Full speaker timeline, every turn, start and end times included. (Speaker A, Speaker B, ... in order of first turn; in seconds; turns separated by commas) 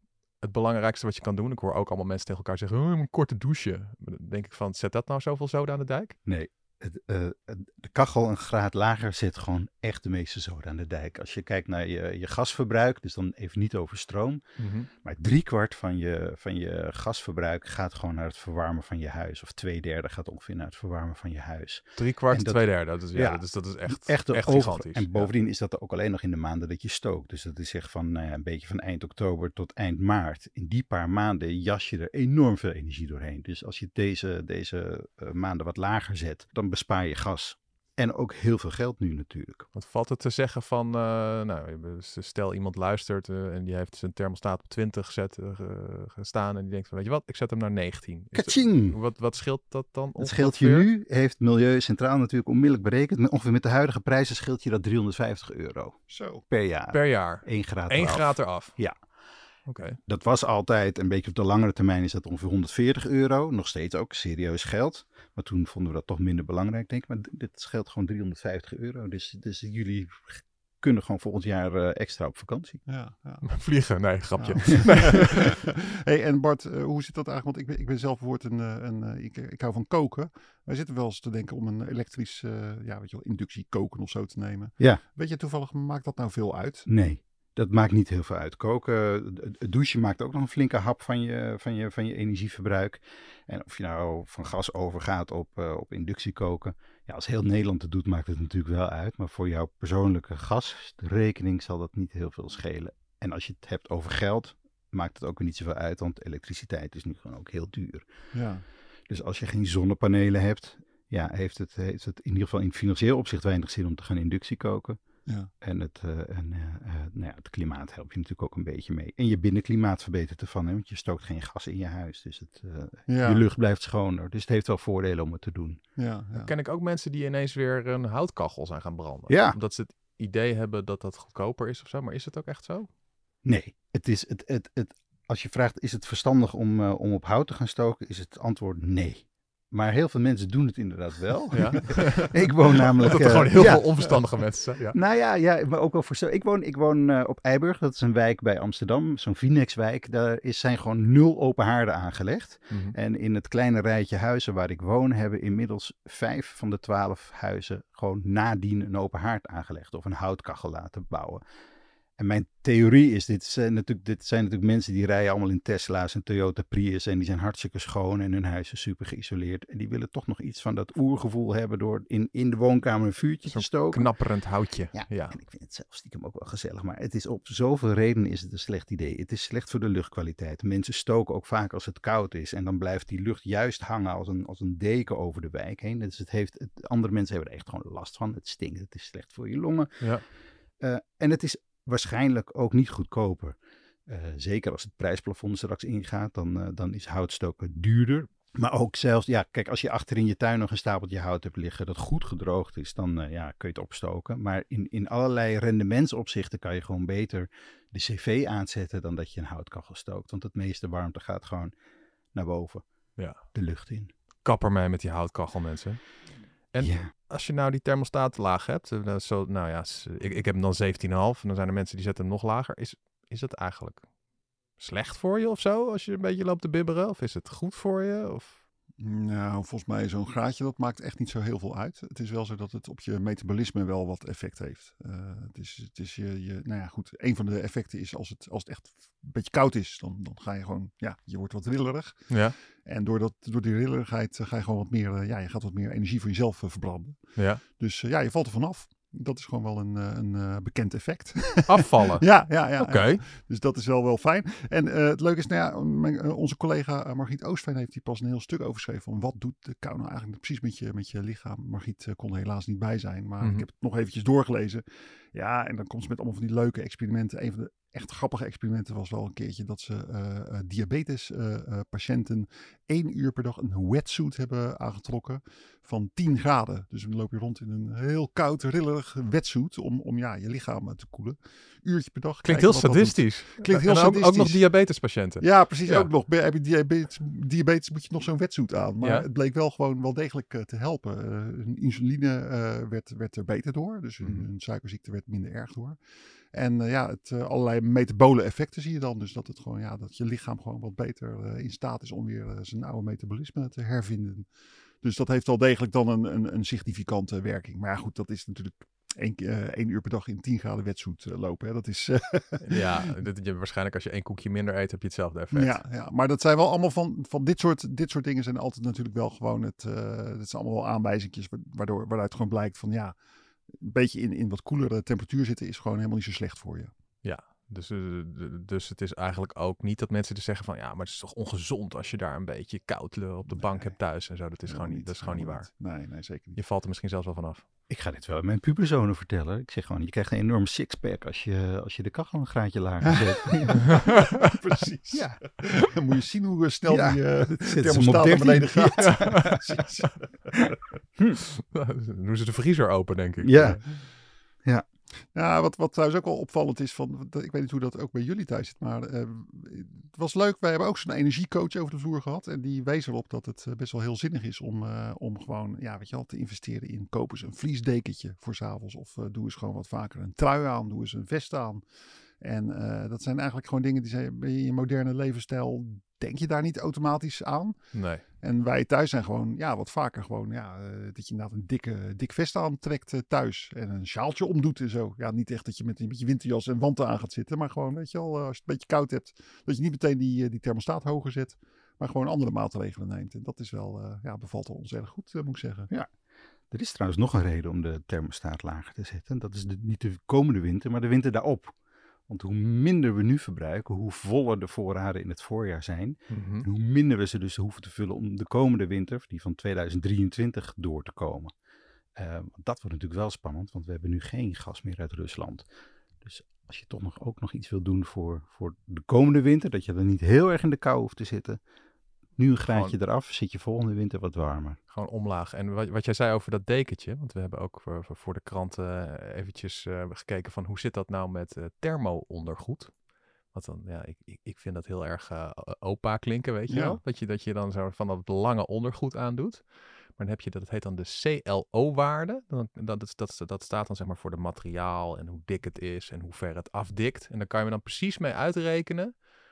Speaker A: 0.4-6.2, Speaker B: 6.2-14.4, Speaker A: 14.6-14.9, Speaker B: 15.0-39.7, Speaker A: 22.0-25.3, Speaker A: 39.7-50.9, Speaker B: 48.3-49.0, Speaker B: 50.2-58.9, Speaker C: 56.1-56.4, Speaker A: 56.9-58.8, Speaker A: 59.7-60.0, Speaker B: 60.1-72.8, Speaker C: 72.9-73.6, Speaker A: 73.4-75.6, Speaker C: 74.4-86.9, Speaker B: 86.9-108.1, Speaker C: 108.3-108.6, Speaker B: 109.1-115.0, Speaker B: 115.6-125.8, Speaker C: 123.1-123.4, Speaker C: 126.0-126.5, Speaker A: 126.3-132.9, Speaker B: 129.3-129.6, Speaker B: 133.4-144.2, Speaker A: 141.5-142.5, Speaker A: 143.0-144.9, Speaker B: 144.9-161.4, Speaker A: 152.7-152.9, Speaker B: 162.2-174.2, Speaker A: 173.5-175.3, Speaker B: 174.9-190.1, Speaker B: 190.8-193.6, Speaker B: 194.1-211.7, Speaker B: 212.3-212.8, Speaker B: 213.4-214.1, Speaker A: 214.4-216.0, Speaker A: 216.7-224.1, Speaker B: 216.8-217.1, Speaker A: 224.8-228.6, Speaker C: 229.0-284.6, Speaker A: 242.3-242.5, Speaker A: 251.7-252.2, Speaker A: 252.8-253.2, Speaker A: 282.4-286.1, Speaker C: 285.4-296.0, Speaker A: 289.0-289.3, Speaker A: 294.2-294.5, Speaker C: 296.5-304.5, Speaker C: 305.0-312.8, Speaker A: 312.6-315.8, Speaker C: 315.5-323.1, Speaker C: 323.7-326.9, Speaker A: 327.2-335.7, Speaker C: 333.5-334.0, Speaker C: 334.6-336.6, Speaker A: 336.6-337.6, Speaker B: 337.9-343.9, Speaker C: 343.0-350.6, Speaker B: 345.1-345.4, Speaker B: 346.9-349.6, Speaker A: 349.2-349.4, Speaker A: 351.7-353.8, Speaker B: 353.4-353.9, Speaker C: 355.3-371.8, Speaker C: 372.4-395.9, Speaker A: 377.9-378.2, Speaker B: 396.7-401.7, Speaker B: 402.3-411.5, Speaker A: 406.3-406.6, Speaker B: 412.1-415.7, Speaker B: 416.2-421.6, Speaker B: 422.4-424.8, Speaker A: 424.9-432.9, Speaker A: 433.5-449.2, Speaker C: 436.7-437.0